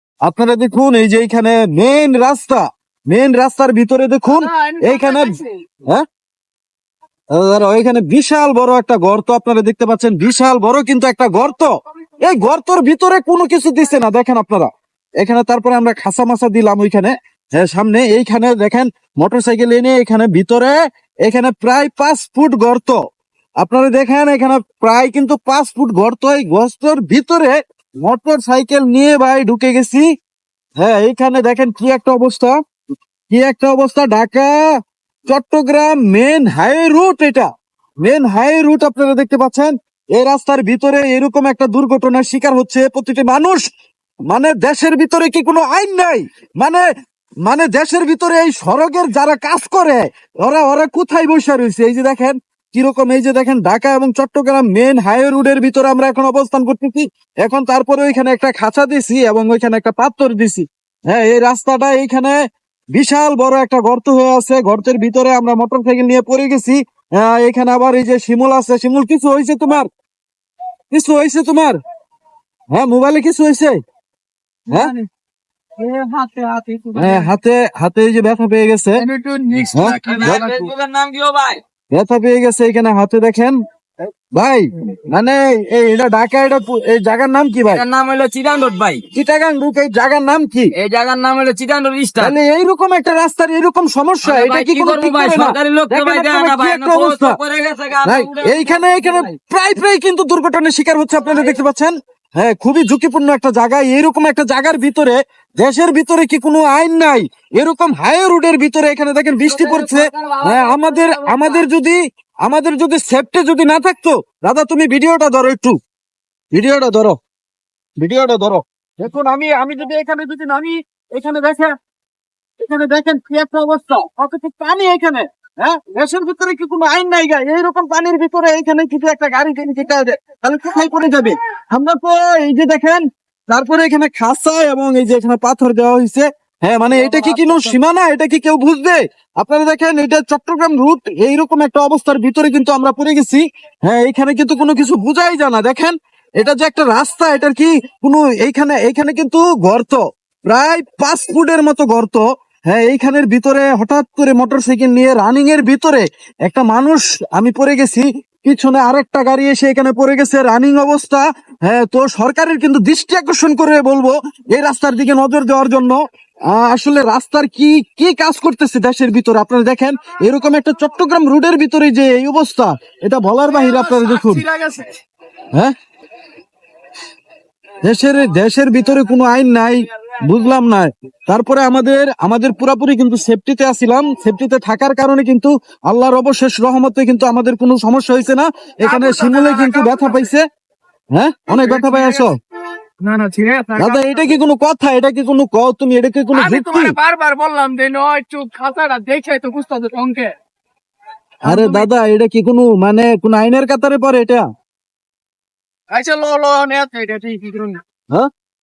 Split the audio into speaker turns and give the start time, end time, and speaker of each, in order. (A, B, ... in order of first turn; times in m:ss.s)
0:00.3-0:05.3 A
0:04.3-0:05.6 B
0:07.4-0:11.7 A
0:12.2-0:14.7 A
0:15.2-0:20.8 A
0:21.3-0:23.0 A
0:23.6-0:30.0 A
0:30.8-0:32.6 A
0:33.3-0:34.5 A
0:35.3-0:37.5 A
0:38.0-0:43.6 A
0:44.3-0:46.8 A
0:47.5-1:02.4 A
1:03.0-1:09.9 A
1:10.9-1:11.8 A
1:12.7-1:13.8 A
1:14.7-1:15.1 B
1:15.8-1:17.3 B
1:17.0-1:19.0 A
1:19.0-1:20.7 B
1:19.7-1:20.4 A
1:19.7-1:21.6 C
1:21.9-1:27.8 A
1:27.7-1:29.0 C
1:29.1-1:30.7 A
1:30.7-1:32.4 C
1:32.2-1:37.4 A
1:34.2-1:39.4 C
1:38.0-1:55.8 A
1:41.2-1:41.6 C
1:49.5-1:51.7 C
1:56.5-1:57.2 A
1:58.0-2:01.7 A
2:02.6-2:46.0 A
2:16.9-2:17.8 B
2:46.5-2:54.4 A
2:53.5-2:55.0 B
2:57.8-3:10.4 A
3:08.8-3:10.3 B
3:11.2-3:12.4 A
3:11.5-3:12.3 B
3:13.0-3:14.4 B
3:13.8-3:17.0 A
3:16.3-3:20.4 B
3:21.4-3:21.9 B
3:21.4-3:24.4 A
3:25.9-3:27.8 B